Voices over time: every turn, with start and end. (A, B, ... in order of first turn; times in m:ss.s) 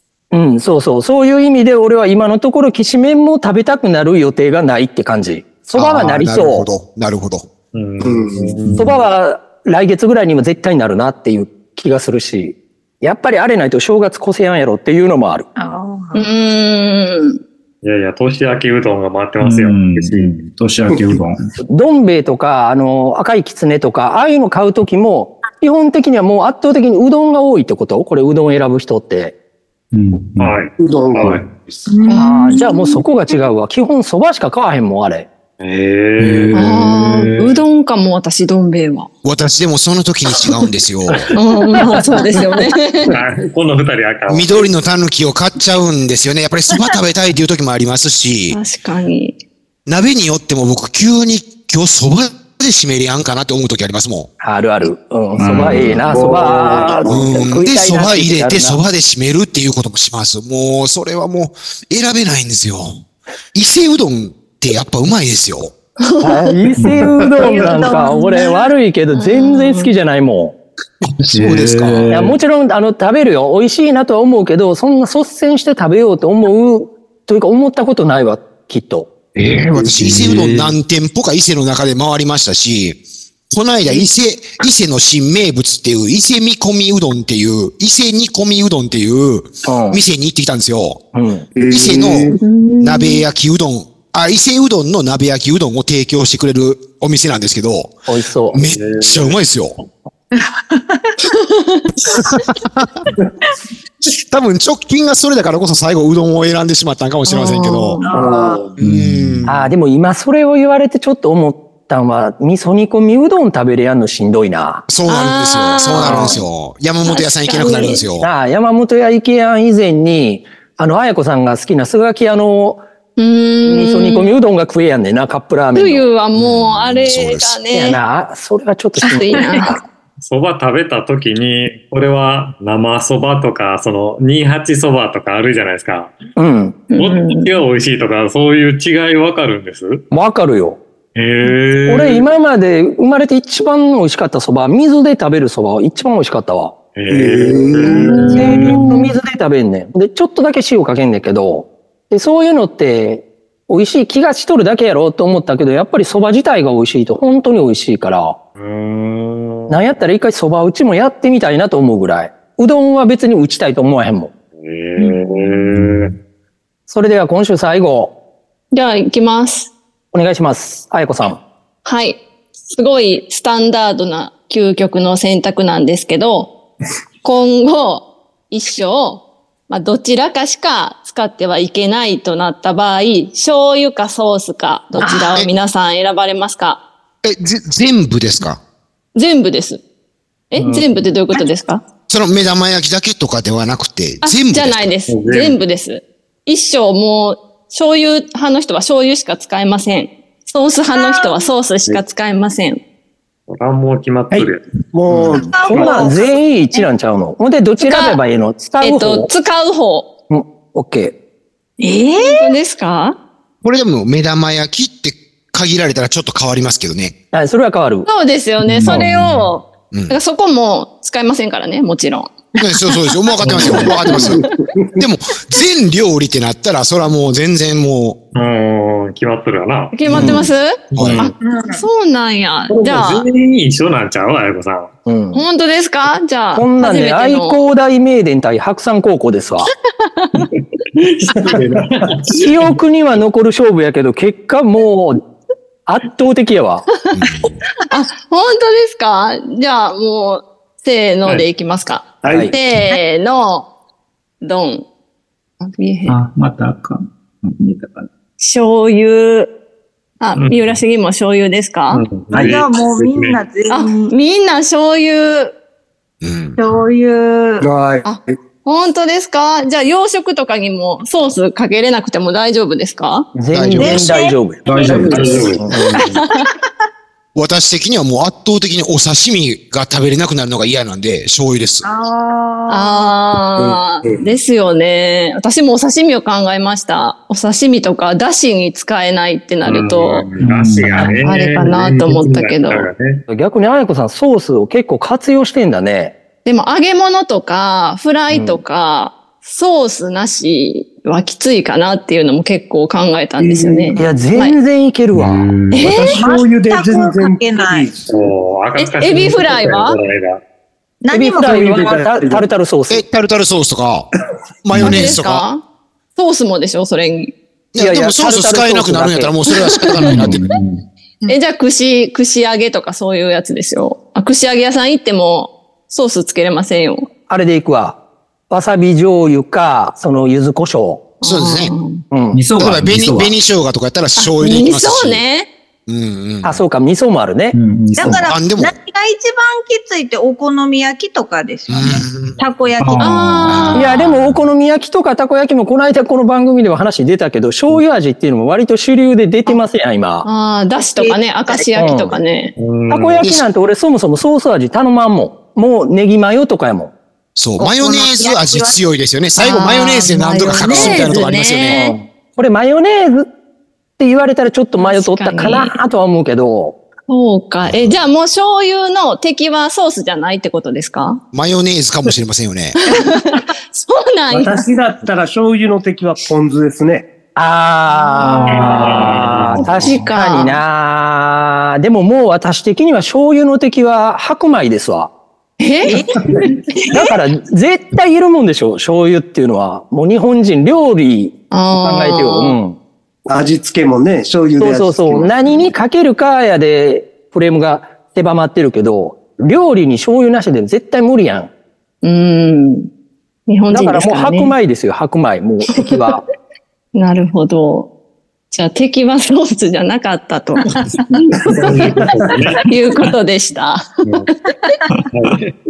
0:00.3-0:06.7 A
0:05.8-0:07.5 B
0:07.7-0:08.9 C
0:08.0-0:08.6 D
0:08.6-0:09.0 E
0:08.8-0:15.5 A
0:15.6-0:16.3 F
0:16.1-0:17.4 G
0:17.8-0:20.4 C
0:19.4-0:21.5 E
0:21.7-0:29.4 A
0:29.9-0:30.6 E
0:30.4-0:31.5 C
0:30.8-0:31.7 D
0:31.9-0:33.0 F
0:32.1-0:35.3 A
0:35.6-0:37.6 C
0:36.2-0:36.9 E
0:36.5-0:39.1 G
0:39.2-0:41.3 B
0:41.3-0:43.2 G
0:43.1-0:44.6 C
0:44.3-0:48.6 B
0:48.5-0:49.4 G
0:49.9-0:54.3 B
0:54.4-0:58.8 A
0:55.4-0:56.9 E
0:55.4-0:56.0 B
0:56.1-0:57.2 D
0:57.1-1:03.0 B
1:03.5-1:05.7 B
1:06.0-1:06.5 G
1:06.2-1:10.6 A
1:06.8-1:07.3 E
1:07.4-1:08.7 F
1:09.1-1:09.9 G
1:11.0-1:12.2 B
1:11.3-1:12.4 E
1:12.1-1:19.1 A
1:19.4-1:20.8 E
1:19.5-1:31.0 B
1:29.6-1:30.0 A
1:31.1-1:31.5 A
1:31.5-1:32.4 D
1:31.7-1:39.8 B
1:32.4-1:33.2 G
1:38.1-1:38.6 A
1:38.7-1:39.4 C
1:40.4-1:41.1 F
1:41.3-1:41.8 G
1:42.1-1:42.9 B
1:44.1-1:48.0 B
1:47.3-1:48.1 G
1:48.0-1:48.7 F
1:48.1-1:48.8 D
1:48.2-1:48.6 A
1:48.8-1:49.6 B
1:48.8-1:49.6 E
1:49.5-1:54.9 A
1:54.9-1:58.3 B
1:55.1-1:56.4 G
1:56.0-1:56.4 A
1:57.0-1:58.0 G
1:58.2-2:02.8 A
2:03.2-2:04.3 G
2:03.7-2:06.0 A
2:05.8-2:08.0 G
2:06.4-2:07.6 B
2:07.7-2:09.8 A
2:09.0-2:09.7 F
2:09.0-2:09.8 G
2:10.2-2:16.1 C
2:16.4-2:16.8 A
2:16.9-2:17.6 G
2:17.0-2:20.0 C
2:20.1-2:20.8 A
2:21.2-2:22.2 C
2:21.9-2:26.7 A
2:27.0-2:28.9 C
2:27.1-2:28.6 D
2:27.9-2:38.4 A
2:38.6-2:39.8 C
2:39.7-2:44.3 A
2:44.6-2:46.1 C
2:45.7-2:46.2 E
2:46.9-2:48.1 A
2:48.7-2:49.7 G
2:50.1-2:51.4 A
2:51.8-2:56.5 G
2:57.2-3:06.8 G
3:05.0-3:05.5 B
3:05.0-3:05.3 F
3:07.2-3:08.6 B
3:09.2-3:09.8 G
3:10.5-3:11.8 G
3:10.6-3:10.9 C
3:12.1-3:14.9 B
3:14.2-3:22.8 G
3:15.1-3:15.6 C
3:20.9-3:21.5 F
3:23.5-3:24.6 C
3:24.3-3:25.5 D
3:25.1-3:29.3 A
3:25.3-3:26.8 F
3:25.7-3:26.1 C
3:27.8-3:28.2 G
3:28.8-3:30.1 G
3:30.3-3:31.2 A
3:31.8-3:32.5 F
3:32.2-3:33.2 G
3:33.6-3:37.2 B
3:37.3-3:38.1 A
3:38.1-3:42.3 G
3:38.6-3:39.5 E
3:39.9-3:40.2 B
3:42.6-3:48.2 B
3:43.4-3:44.1 C
3:43.6-3:44.4 G
3:48.3-3:50.4 C
3:49.9-3:53.2 G
3:50.1-3:51.2 B
3:50.9-3:51.3 C
3:51.4-3:51.8 F
3:52.7-3:54.9 C
3:55.1-3:55.4 A
3:55.3-3:57.6 G
3:56.5-3:59.7 A
4:00.0-4:00.4 G
4:01.0-4:02.5 C
4:02.3-4:05.2 A
4:05.9-4:06.9 A
4:07.2-4:07.6 B
4:07.9-4:13.7 G
4:12.2-4:12.6 A
4:14.4-4:14.9 G
4:15.6-4:16.2 G
4:16.1-4:18.1 E
4:18.4-4:19.5 G
4:20.2-4:22.0 G
4:20.4-4:20.8 C
4:21.9-4:23.4 C
4:22.3-4:22.6 E
4:22.4-4:24.1 F
4:23.7-4:25.6 G
4:26.2-4:26.6 B
4:26.6-4:27.7 F
4:27.6-4:28.1 D
4:28.0-4:33.3 G
4:33.4-4:35.9 A
4:33.5-4:34.2 B
4:33.8-4:35.5 F
4:34.6-4:35.4 E
4:35.0-4:35.7 C
4:37.4-4:41.8 B
4:41.8-4:43.2 F
4:42.7-4:50.2 G
4:43.6-4:44.3 D
4:49.7-4:53.2 C
4:50.4-4:51.2 E
4:51.2-4:52.9 G
4:53.3-4:56.1 A
4:56.4-5:04.6 G
4:58.3-4:58.6 A
5:03.4-5:04.0 D
5:03.9-5:05.5 A
5:05.1-5:06.1 E
5:05.7-5:06.2 G
5:05.8-5:08.2 D
5:06.2-5:07.9 F
5:08.1-5:10.4 C
5:08.8-5:10.0 G
5:11.0-5:11.9 F
5:11.1-5:13.0 A
5:11.4-5:12.5 D
5:12.9-5:14.1 B
5:14.6-5:15.5 B
5:14.7-5:15.2 E
5:14.8-5:15.6 G
5:16.2-5:17.3 G
5:17.7-5:20.4 B
5:17.8-5:19.4 A
5:19.7-5:20.3 G
5:20.1-5:20.8 E
5:21.3-5:27.1 G
5:27.3-5:28.0 A
5:28.5-5:31.0 A
5:31.2-5:32.0 G
5:31.2-5:31.8 B
5:32.1-5:32.4 A
5:32.3-5:33.4 E
5:32.6-5:35.2 B
5:34.2-5:35.5 G
5:35.9-5:36.6 B
5:36.4-5:37.6 A
5:37.5-5:38.3 E
5:37.9-5:43.4 F
5:38.1-5:38.7 B
5:41.7-5:42.4 B
5:42.8-5:43.8 E
5:43.0-5:43.9 G
5:43.5-5:44.4 B
5:43.8-5:50.3 A
5:50.2-5:52.5 G
5:51.0-5:51.7 F
5:51.8-5:52.2 A
5:52.6-5:53.3 C
5:52.9-5:56.9 A
5:53.2-5:53.5 B
5:57.4-6:01.8 B
5:57.6-5:58.8 F
5:59.4-6:02.0 G
6:00.8-6:01.1 A
6:01.7-6:03.3 A
6:04.0-6:06.8 A
6:04.8-6:05.7 G
6:07.1-6:11.2 G
6:07.7-6:08.0 B
6:11.3-6:12.8 B
6:12.8-6:14.6 G
6:14.3-6:17.1 D
6:17.4-6:25.1 A
6:18.2-6:19.0 G
6:18.6-6:20.0 C
6:19.8-6:20.6 G
6:25.6-6:26.0 G
6:25.8-6:26.2 F
6:26.7-6:27.2 F
6:26.9-6:32.8 A
6:31.5-6:32.6 G
6:33.3-6:35.7 D
6:34.6-6:41.5 A
6:42.0-6:42.9 G
6:43.5-6:44.5 G
6:43.7-6:46.2 A
6:47.0-6:47.9 G
6:48.5-6:52.0 G
6:51.4-6:52.6 C
6:52.6-6:53.9 G
6:55.0-6:55.5 C